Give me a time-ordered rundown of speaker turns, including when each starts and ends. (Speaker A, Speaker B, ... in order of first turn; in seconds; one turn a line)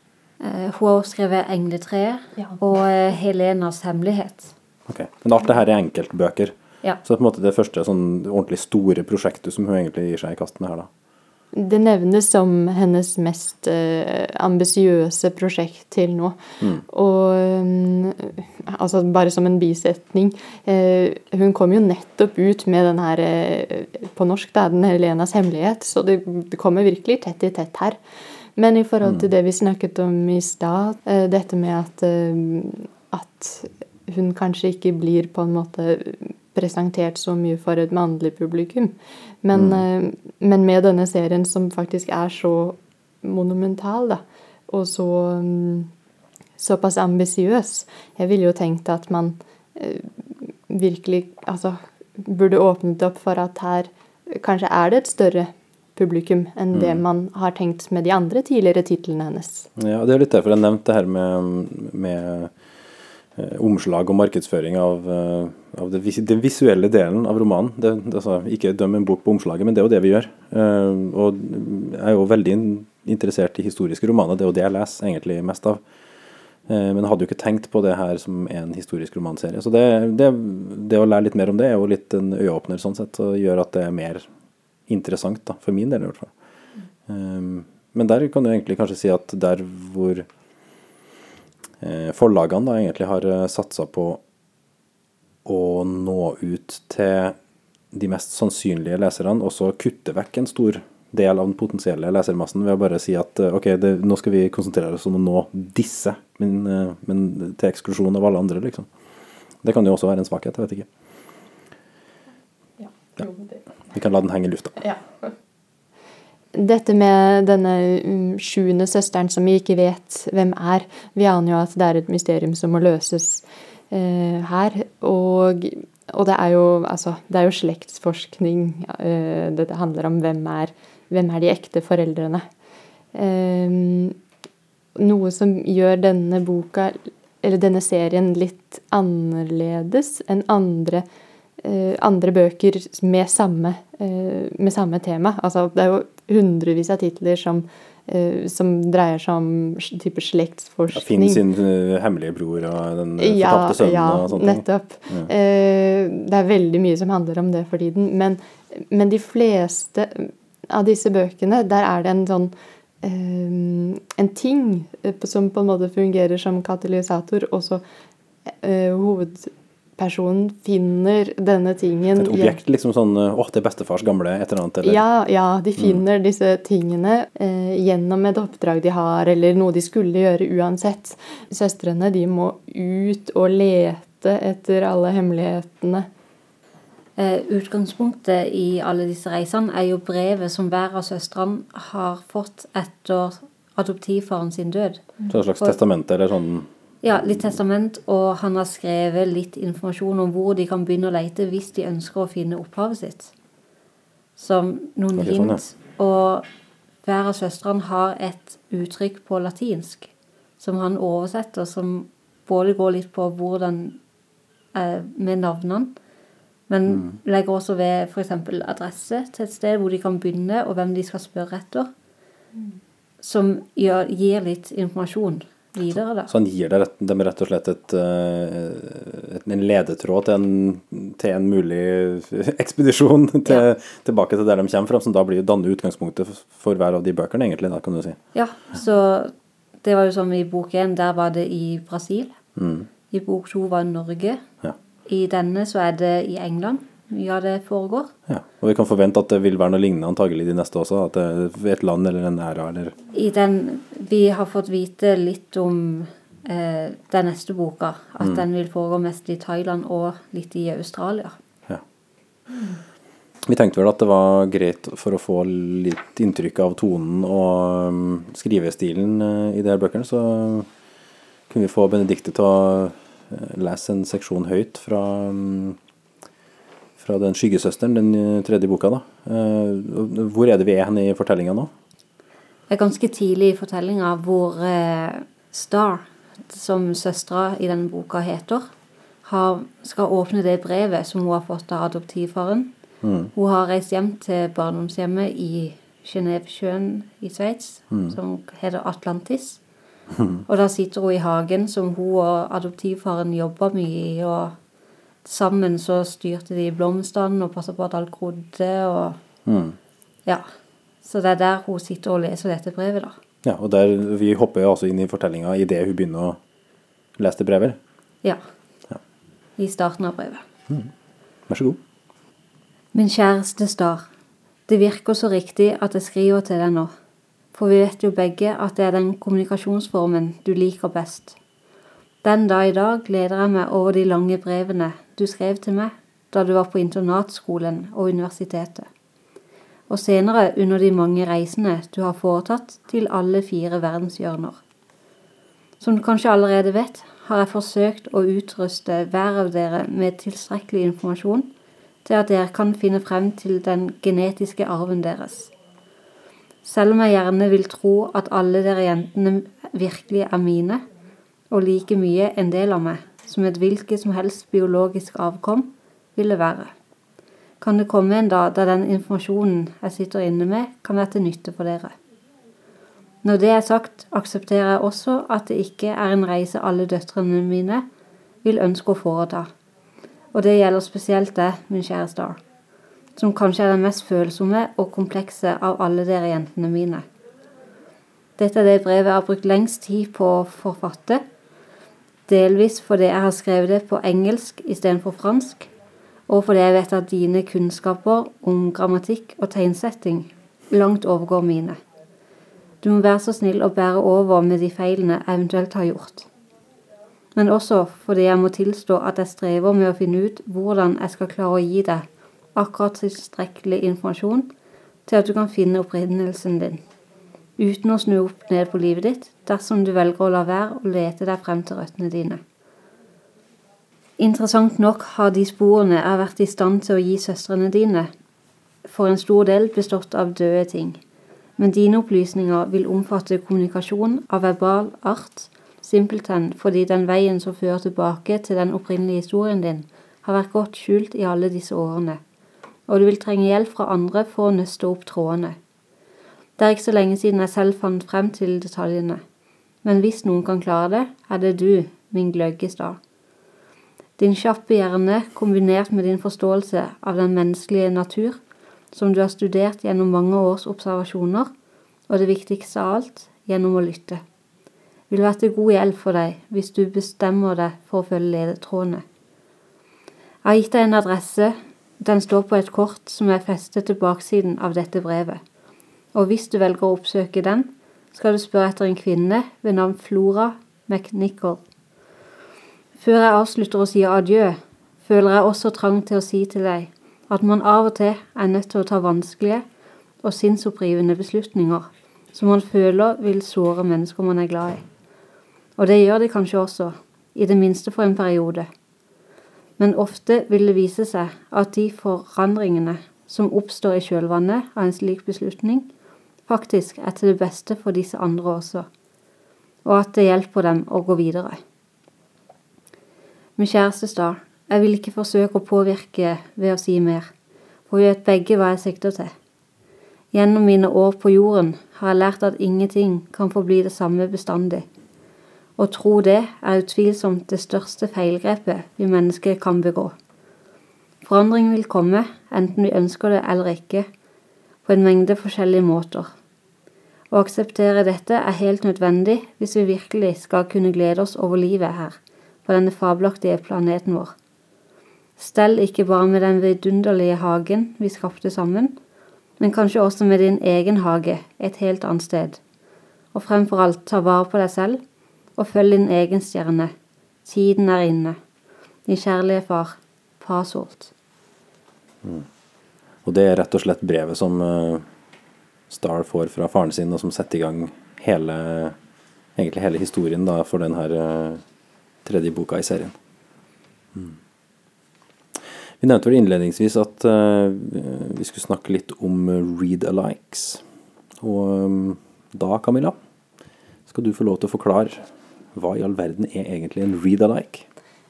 Speaker A: 0.4-4.5
Speaker B: 4.9-10.9
Speaker C: 11.5-28.0
Speaker C: 28.6-45.9
Speaker B: 39.5-39.8
Speaker C: 46.6-59.7
Speaker B: 56.7-57.0
Speaker B: 59.8-62.5
Speaker B: 63.4-75.8
Speaker B: 76.7-84.3
Speaker B: 84.9-86.3
Speaker B: 87.1-90.3
Speaker B: 91.8-94.2
Speaker B: 95.4-97.3
Speaker B: 97.9-108.9
Speaker B: 109.6-110.9
Speaker C: 112.8-113.6
Speaker B: 113.9-114.8
Speaker C: 114.8-115.3
Speaker C: 116.5-132.4
Speaker C: 133.1-134.2
Speaker C: 134.9-141.0
Speaker C: 141.6-151.4
Speaker B: 150.9-155.3
Speaker C: 153.2-167.8
Speaker C: 168.6-172.6
Speaker B: 172.2-175.0
Speaker C: 174.8-186.1
Speaker A: 187.2-195.7
Speaker B: 195.3-196.7
Speaker A: 197.0-203.3
Speaker A: 204.4-206.4
Speaker B: 205.2-205.6
Speaker A: 207.0-214.0
Speaker A: 214.7-215.9
Speaker A: 216.7-221.9
Speaker A: 223.2-226.3
Speaker B: 226.3-238.2
Speaker A: 238.3-242.3
Speaker B: 242.6-242.9
Speaker A: 243.1-244.4
Speaker A: 245.1-248.1
Speaker B: 248.3-252.9
Speaker A: 253.1-261.3
Speaker B: 263.5-270.7
Speaker B: 271.5-275.8
Speaker B: 277.0-281.7
Speaker A: 282.7-288.7
Speaker A: 289.2-292.7
Speaker B: 293.0-293.3
Speaker A: 293.4-299.6
Speaker B: 300.1-300.4
Speaker A: 300.5-304.5
Speaker A: 305.2-309.2
Speaker B: 309.4-309.8
Speaker A: 311.0-313.2
Speaker B: 313.4-316.4
Speaker B: 317.2-317.8
Speaker A: 319.6-320.4
Speaker B: 321.5-321.8
Speaker A: 322.9-324.0
Speaker A: 324.7-326.9
Speaker A: 327.5-331.4
Speaker A: 332.2-338.9
Speaker A: 339.9-344.6
Speaker A: 345.8-351.5
Speaker A: 352.0-355.5
Speaker A: 356.6-360.8
Speaker A: 361.5-366.7
Speaker A: 367.6-371.9
Speaker A: 373.2-377.8
Speaker A: 378.4-379.5
Speaker A: 380.3-382.4
Speaker A: 383.1-387.0
Speaker A: 388.4-391.2
Speaker A: 392.3-395.7
Speaker A: 396.3-401.8
Speaker A: 402.8-406.3
Speaker A: 407.3-414.5
Speaker A: 415.1-416.8
Speaker A: 417.6-422.4
Speaker A: 424.2-428.1
Speaker A: 428.8-431.0
Speaker A: 431.6-442.2
Speaker A: 442.9-445.6
Speaker A: 446.6-449.2
Speaker A: 449.8-453.0
Speaker A: 454.2-458.4
Speaker A: 458.9-461.5
Speaker A: 462.1-464.2
Speaker A: 465.1-469.0
Speaker A: 470.4-475.4
Speaker A: 476.1-481.6
Speaker A: 483.0-489.6
Speaker A: 490.2-494.8
Speaker A: 495.8-498.7
Speaker A: 499.8-505.9
Speaker A: 506.5-508.9
Speaker A: 509.8-511.6
Speaker A: 513.6-517.3
Speaker A: 517.9-519.3
Speaker A: 520.3-524.9
Speaker A: 525.8-530.1
Speaker A: 531.2-534.1
Speaker A: 534.8-536.3
Speaker A: 537.3-544.3
Speaker A: 545.4-548.9
Speaker A: 549.6-552.6
Speaker A: 553.3-555.0
Speaker A: 555.6-556.9
Speaker A: 557.5-558.4
Speaker A: 559.1-561.1
Speaker B: 563.2-565.0
Speaker B: 565.9-569.0
Speaker B: 569.5-571.6
Speaker B: 572.2-573.1
Speaker B: 576.0-580.8
Speaker B: 581.4-583.1
Speaker B: 584.1-587.9